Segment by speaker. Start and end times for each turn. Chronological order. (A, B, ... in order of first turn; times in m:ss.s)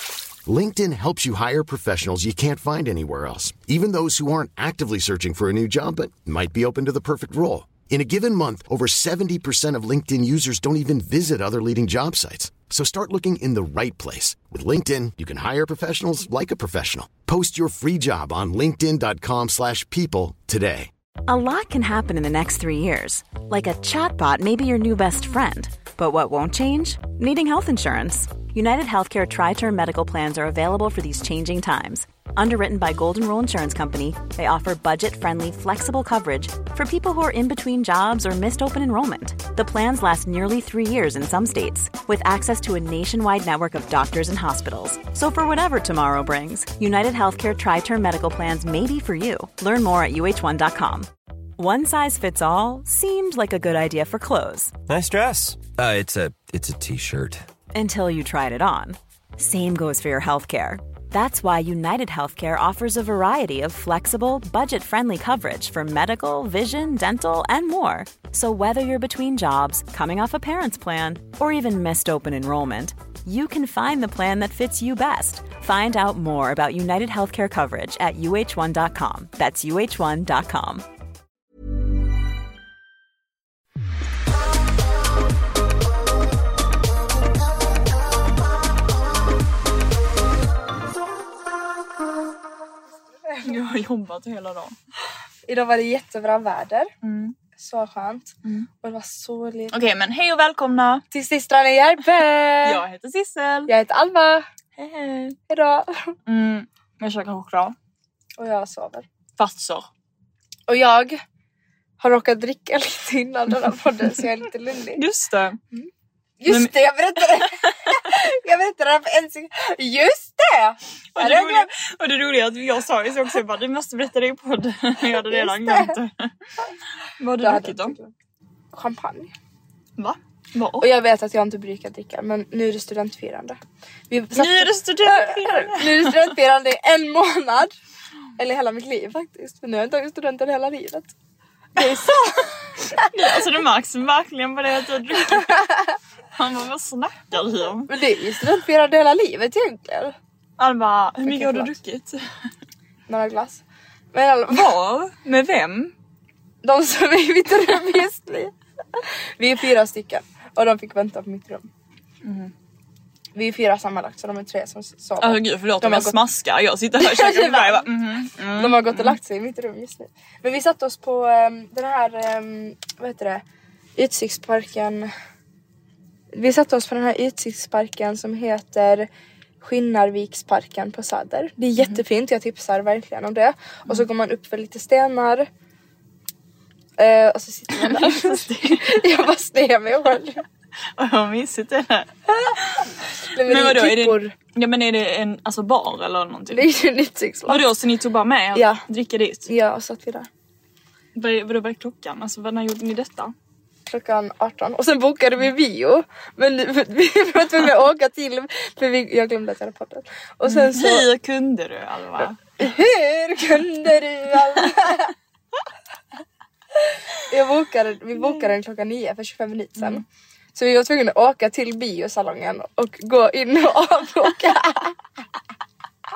0:00.4-0:20.9 A
0:21.3-0:54.7 B
0:54.9-0:57.5 C
0:57.7-1:20.8 B
1:33.4-1:34.8 D
1:35.5-1:36.9 E
1:37.0-1:37.4 D
1:37.6-1:39.8 E
1:39.7-1:41.0 D
1:41.1-1:42.8 E
1:42.6-1:43.7 D
1:43.7-1:44.5 E
1:44.8-1:45.4 D
1:45.5-1:46.2 E
1:46.3-1:47.8 D
1:48.4-1:49.0 E
1:49.4-1:49.8 D
1:50.7-1:51.2 E
1:52.0-1:55.0 E
1:55.0-1:55.6 D
1:56.4-2:01.7 E
1:56.5-1:57.9 D
2:01.2-2:06.3 D
2:05.2-2:06.0 E
2:07.2-2:08.0 D
2:07.4-2:08.1 E
2:08.7-2:09.3 E
2:10.0-2:10.9 D
2:10.8-2:13.6 E
2:14.1-2:17.7 E
2:14.4-2:16.3 D
2:18.4-2:21.1 E
2:21.8-2:23.1 E
2:21.8-2:25.7 D
2:25.5-2:25.7 E
2:26.4-2:27.9 D
2:27.9-2:30.2 E
2:30.6-2:32.2 D
2:31.3-2:31.8 E
2:33.1-2:33.6 E
2:34.1-2:34.7 E
2:34.5-2:35.9 D
2:36.6-2:41.7 E
2:42.2-2:42.5 D
2:43.4-2:46.2 E
2:45.2-2:49.2 D
2:47.0-2:47.9 E
2:48.5-2:53.4 E
2:54.0-2:55.1 E
2:56.3-2:59.1 E
2:59.6-3:05.5 E
3:07.0-3:10.4 E
3:07.7-3:09.0 D
3:11.0-3:12.9 D
3:13.3-3:14.3 E
3:13.4-3:16.7 D
3:16.5-3:17.6 E
3:17.5-3:19.5 D
3:18.5-3:18.8 E
3:19.5-3:20.3 E
3:21.2-3:23.3 D
3:23.9-3:31.1 E
3:30.5-3:32.4 D
3:32.6-3:35.1 E
3:37.3-3:40.0 E
3:39.8-3:40.0 D
3:40.6-3:45.0 E